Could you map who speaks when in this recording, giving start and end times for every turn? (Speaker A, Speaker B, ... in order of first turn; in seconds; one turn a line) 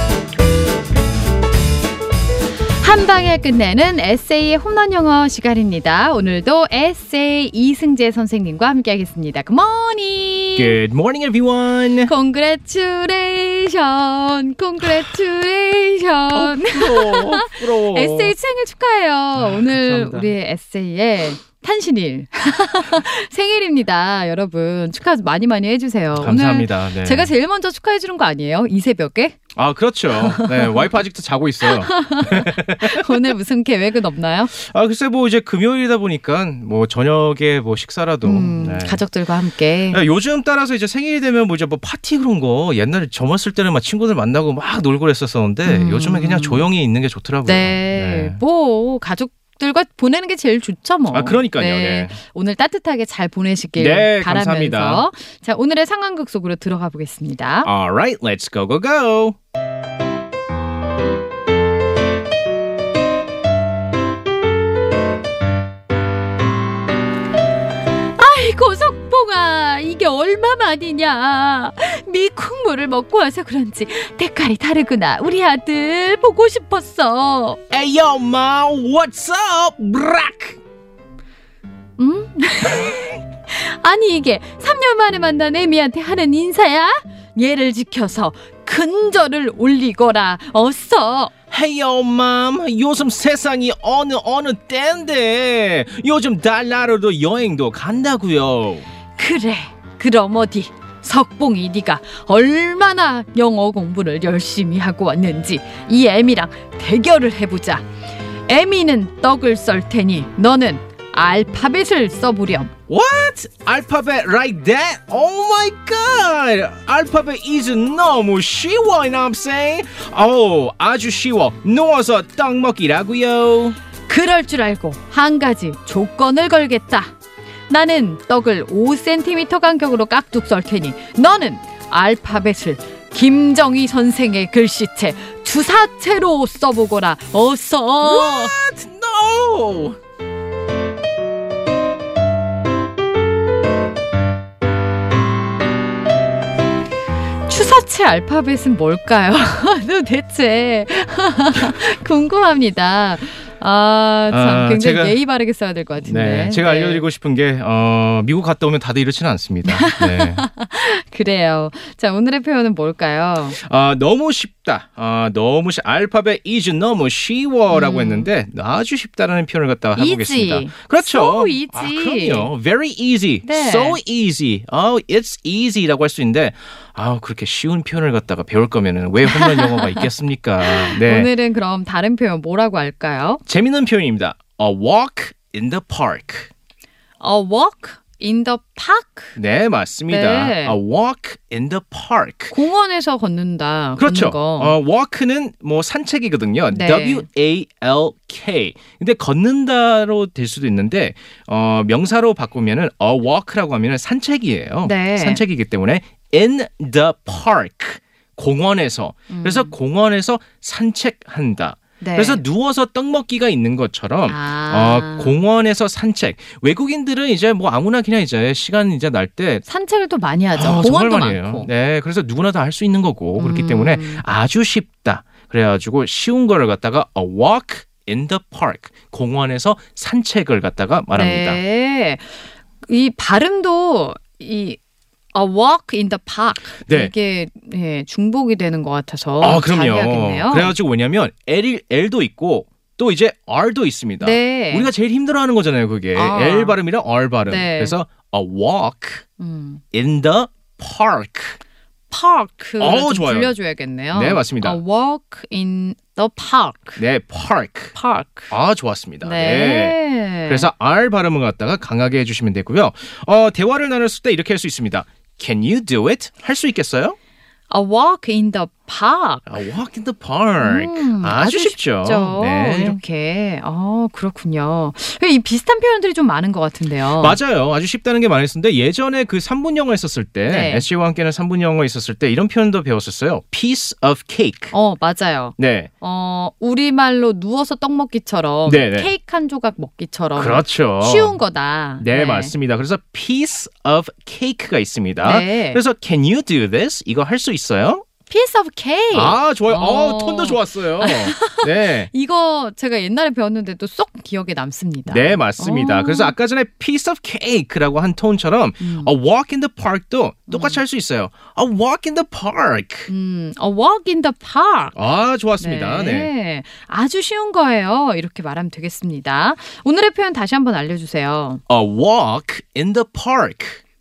Speaker A: 2.8-10.8
Speaker B: 10.6-12.1
Speaker A: 12.1-29.4
Speaker B: 16.3-18.3
Speaker B: 19.4-20.3
Speaker B: 26.2-27.3
Speaker B: 29.6-33.2
Speaker A: 30.1-30.9
Speaker A: 31.6-34.5
Speaker B: 34.5-39.0
Speaker A: 38.2-40.0
Speaker B: 39.9-48.4
Speaker A: 45.6-46.7
Speaker A: 47.5-57.7
Speaker B: 51.1-52.1
Speaker B: 53.8-55.0
Speaker B: 57.6-59.4
Speaker A: 68.2-77.6
Speaker B: 77.7-80.6
Speaker A: 82.0-91.3
Speaker B: 91.5-98.9
Speaker A: 99.2-107.8
Speaker A: 108.5-112.7
Speaker B: 112.9-123.8
Speaker A: 124.1-127.1
Speaker A: 127.7-138.6
Speaker B: 138.0-140.0
Speaker A: 147.5-157.1
Speaker B: 154.3-155.2
Speaker B: 156.0-160.5
Speaker A: 159.7-163.6
Speaker B: 163.6-181.3
Speaker A: 167.7-168.3
Speaker A: 170.0-172.5
Speaker A: 173.4-174.0
Speaker A: 179.2-180.1
Speaker A: 180.6-183.4
Speaker B: 183.5-186.5
Speaker A: 187.2-189.3
Speaker B: 189.4-192.6
Speaker A: 190.1-190.8
Speaker A: 192.5-194.8
Speaker B: 194.0-219.7
Speaker A: 196.7-197.3
Speaker A: 204.8-205.4
Speaker A: 209.3-209.7
Speaker A: 212.0-212.4
Speaker A: 214.3-215.3
Speaker A: 219.7-221.7
Speaker B: 220.5-231.6
Speaker A: 223.4-224.2
Speaker A: 231.1-234.8
Speaker A: 235.3-240.8
Speaker B: 236.9-237.1
Speaker B: 239.4-249.2
Speaker A: 244.2-244.9
Speaker A: 246.1-246.8
Speaker A: 247.5-248.0
Speaker A: 249.4-249.8
Speaker B: 249.9-251.6
Speaker A: 252.1-257.0
Speaker B: 252.8-253.6
Speaker B: 254.1-254.8
Speaker B: 257.0-257.9
Speaker A: 257.9-258.5
Speaker B: 258.5-267.2
Speaker A: 259.2-260.7
Speaker A: 267.7-269.6
Speaker B: 269.5-273.0
Speaker A: 270.6-277.4
Speaker B: 277.2-284.7
Speaker A: 280.5-280.9
Speaker A: 284.7-292.5
Speaker B: 285.6-285.9
Speaker B: 288.7-289.1
Speaker B: 290.4-291.4
Speaker B: 292.0-298.0
Speaker A: 295.2-295.8
Speaker A: 298.3-306.3
Speaker B: 299.1-302.1
Speaker B: 305.1-313.1
Speaker A: 308.8-309.1
Speaker A: 310.5-310.8
Speaker A: 313.1-314.9
Speaker B: 315.0-316.3
Speaker A: 315.6-321.6
Speaker B: 321.7-323.8